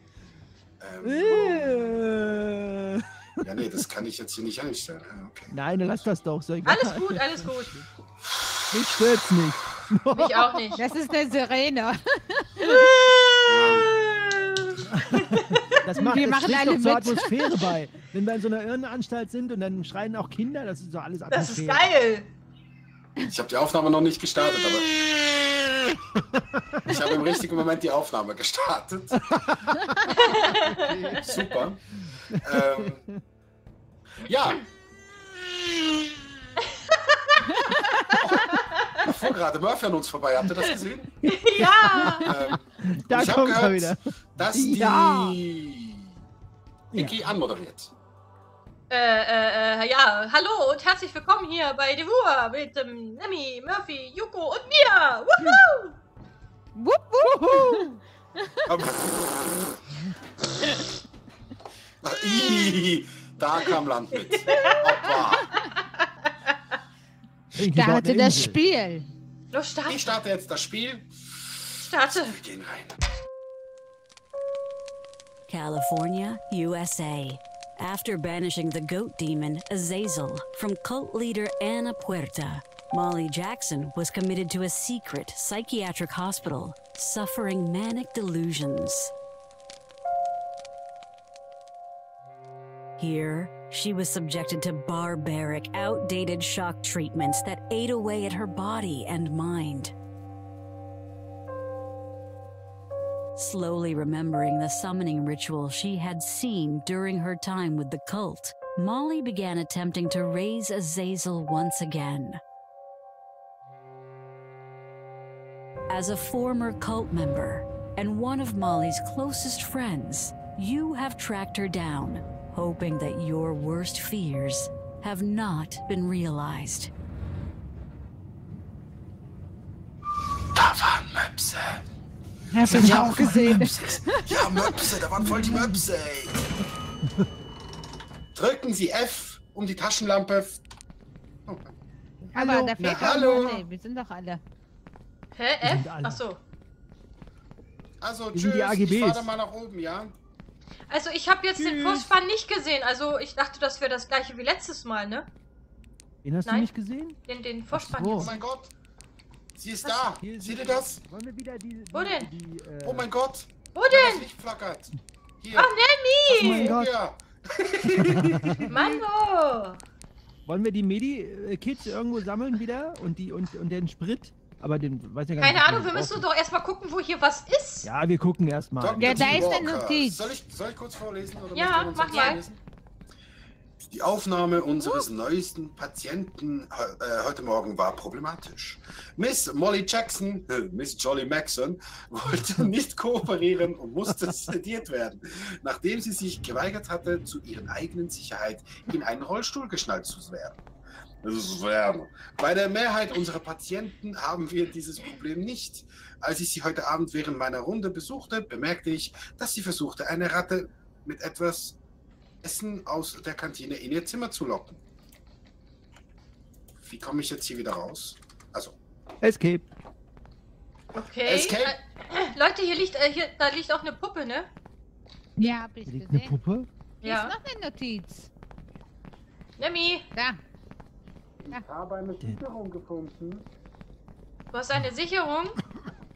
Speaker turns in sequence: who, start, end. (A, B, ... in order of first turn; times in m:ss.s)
0:00.8-0:01.7 A
0:01.0-0:03.1 B
0:03.4-0:05.5 A
0:05.5-0:07.9 B
0:06.7-0:07.7 C
0:08.7-0:10.8 B
0:10.1-0:10.8 C
0:10.8-0:12.9 D
0:12.6-0:15.6 C
0:13.5-0:13.9 A
0:15.8-0:21.9 B
0:16.0-0:17.7 D
0:21.3-0:22.3 C
0:23.2-0:24.9 A
0:26.4-0:27.0 B
0:26.9-0:29.2 A
0:29.2-0:29.8 B
0:30.2-0:31.3 C
0:30.7-0:31.2 B
0:31.2-0:31.8 A
0:32.3-0:33.1 B
0:32.4-0:33.0 A
0:34.2-0:34.6 A
0:37.3-0:38.6 C
0:37.5-0:37.8 D
0:39.0-0:41.1 A
0:41.3-0:42.3 C
0:41.6-0:45.4 B
0:42.2-0:46.2 A
0:46.9-0:47.9 A
0:47.0-0:47.2 B
0:48.9-0:56.0 C
0:56.8-0:58.6 D
0:57.3-0:57.9 B
0:58.7-0:59.7 A
1:02.0-1:05.5 A
1:04.4-1:05.7 C
1:07.6-1:08.6 B
1:07.6-1:09.1 D
1:09.5-1:10.2 C
1:09.9-1:13.0 A
1:11.8-1:12.4 C
1:15.5-1:29.1 E
1:33.0-1:39.9 E
1:43.4-1:52.4 E
1:55.9-2:06.9 E
2:10.6-2:11.8 A
2:12.5-2:14.8 D
2:12.7-2:16.4 A
2:12.7-2:13.7 B
2:15.2-2:15.7 B
2:18.4-2:20.6 A
2:21.5-2:21.7 A
2:22.3-2:23.4 B
2:22.3-2:24.4 D
2:22.8-2:23.6 A
2:25.4-2:26.4 C
2:25.6-2:26.2 B
2:28.0-2:30.1 A
2:28.3-2:29.3 B
2:30.9-2:35.3 C
2:31.6-2:32.1 B
2:36.2-2:37.2 B
2:37.3-2:38.4 C
2:37.7-2:38.3 B
2:38.2-2:38.7 A
2:39.6-2:41.0 A
2:40.2-2:43.1 B
2:41.9-2:42.3 C
2:42.8-2:45.7 A
2:43.8-2:44.3 C
2:45.5-2:46.8 C
2:46.3-2:46.9 B
2:46.4-2:48.9 A
2:48.1-2:48.7 B
2:48.7-2:49.8 C
2:50.5-2:56.3 B
2:55.4-2:57.9 C
2:57.8-2:59.7 B
2:58.8-3:02.6 A
2:59.0-3:00.2 D
3:01.5-3:02.4 C
3:03.9-3:20.6 A
3:04.8-3:05.1 C
3:21.2-3:31.8 A
3:32.4-3:34.8 A
3:36.8-3:38.8 A
3:39.2-3:39.7 B
3:40.9-3:44.5 C
3:41.2-3:41.7 A
3:45.4-3:46.4 D
3:45.9-3:46.7 B
3:47.0-3:47.3 C
3:47.0-3:48.3 D
3:49.6-3:50.1 C
3:50.1-3:50.4 D
3:51.4-3:53.4 A
3:54.5-3:55.6 C